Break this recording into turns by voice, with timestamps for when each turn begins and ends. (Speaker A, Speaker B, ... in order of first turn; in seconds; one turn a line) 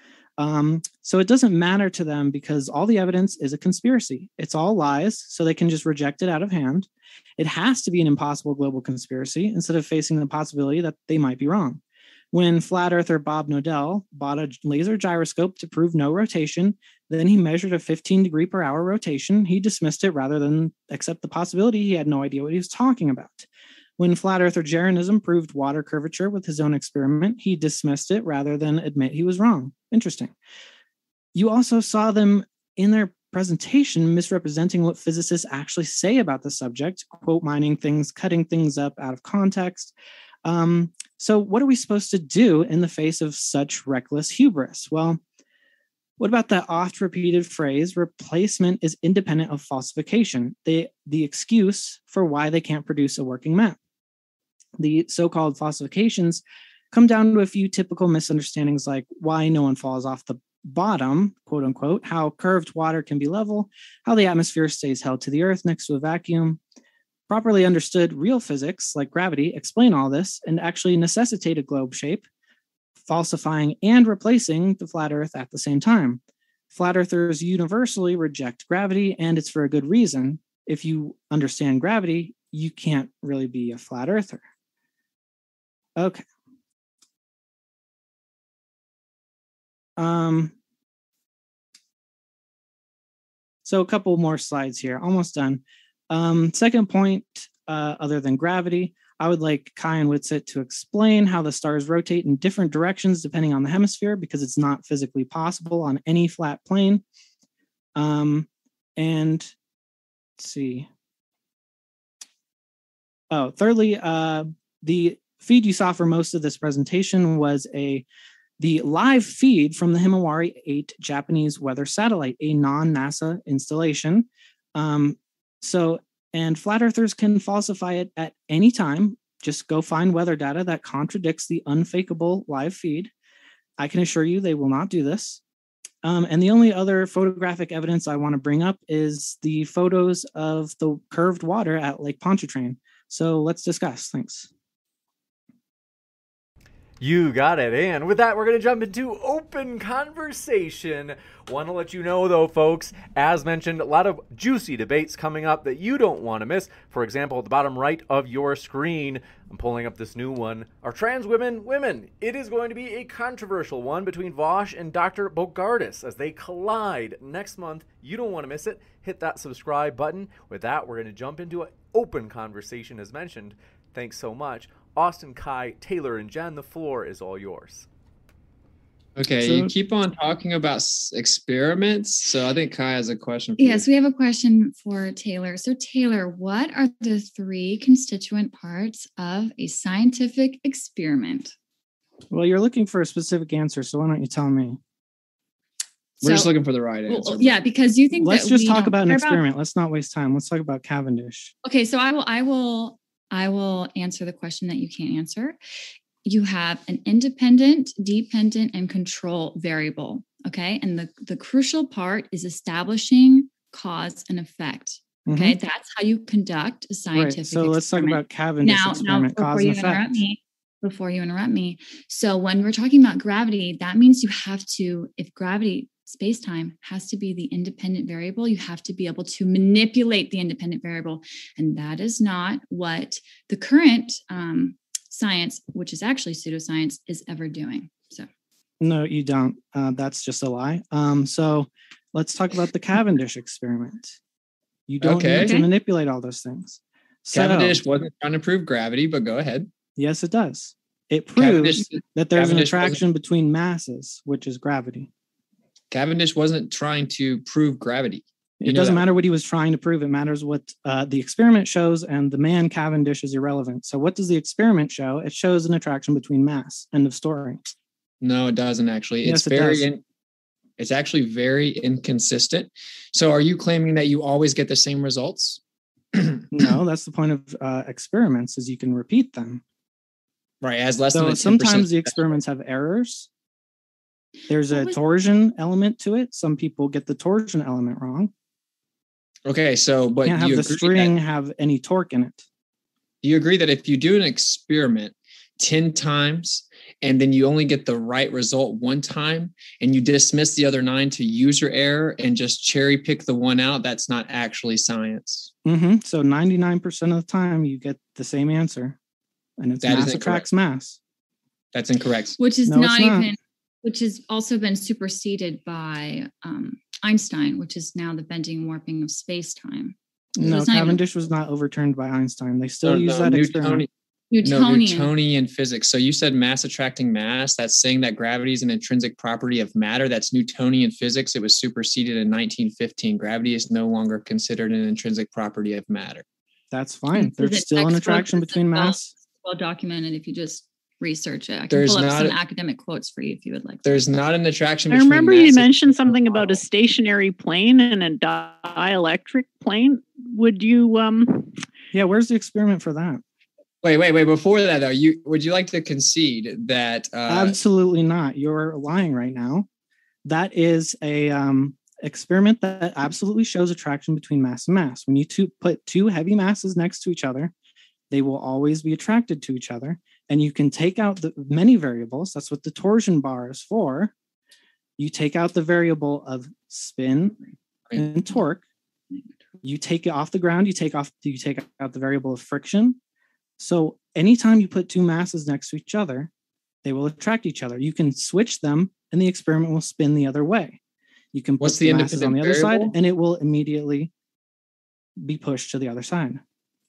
Speaker A: 0.4-11.8
Speaker A: 12.3-23.5
Speaker A: 24.0-30.3
Speaker A: 31.3-45.2
Speaker A: 46.2-53.8
Speaker A: 54.8-66.6
Speaker A: 67.3-72.2
Speaker A: 73.0-76.2
Speaker A: 76.7-84.4
Speaker A: 86.0-86.2
Speaker A: 90.0-90.5
Speaker A: 93.6-107.0
Speaker A: 108.0-109.5
Speaker A: 110.4-110.9
Speaker A: 113.3-118.0
Speaker A: 118.6-133.1
Speaker A: 133.8-135.4
Speaker A: 136.0-144.5
Speaker B: 147.0-177.9
Speaker C: 179.2-183.8
Speaker A: 179.4-179.7
Speaker D: 183.6-191.5
Speaker A: 192.3-194.8
Speaker D: 196.2-196.5
Speaker C: 196.2-197.6
Speaker D: 197.1-199.4
Speaker A: 198.2-201.5
Speaker D: 201.6-205.6
Speaker D: 206.2-238.3
Speaker A: 215.2-215.6
Speaker A: 217.1-220.2
Speaker A: 238.8-244.2
Speaker A: 244.9-247.8
Speaker C: 245.0-245.6
Speaker D: 245.3-245.7
Speaker C: 247.3-249.7
Speaker A: 250.0-255.1
Speaker C: 251.3-253.0
Speaker C: 255.9-259.0
Speaker A: 258.6-267.6
Speaker C: 268.2-270.0
Speaker A: 269.2-269.9
Speaker C: 270.8-275.6
Speaker C: 276.1-276.7
Speaker A: 276.5-279.6
Speaker C: 280.6-282.2
Speaker A: 281.1-283.3
Speaker A: 284.5-288.3
Speaker D: 284.7-285.0
Speaker C: 289.4-291.1
Speaker A: 290.2-292.4
Speaker C: 293.2-305.5
Speaker A: 305.6-309.0
Speaker A: 309.6-311.0
Speaker C: 309.8-310.5
Speaker C: 311.7-312.4
Speaker D: 312.4-321.0
Speaker A: 312.7-313.3
Speaker A: 320.4-323.8
Speaker C: 322.8-323.9
Speaker D: 324.3-325.1
Speaker C: 324.4-336.2
Speaker A: 336.7-339.1
Speaker D: 337.1-344.0
Speaker C: 341.7-342.4
Speaker C: 343.8-346.6
Speaker E: 344.9-351.6
Speaker A: 351.9-353.2
Speaker C: 353.8-357.6
Speaker A: 357.3-359.7
Speaker A: 360.2-367.5
Speaker A: 368.1-374.1
Speaker A: 375.0-377.4
Speaker A: 377.9-378.6
Speaker A: 379.6-383.0
Speaker A: 383.6-386.3
Speaker A: 386.8-390.8
Speaker A: 391.3-394.1
Speaker C: 391.6-392.9
Speaker A: 395.2-396.4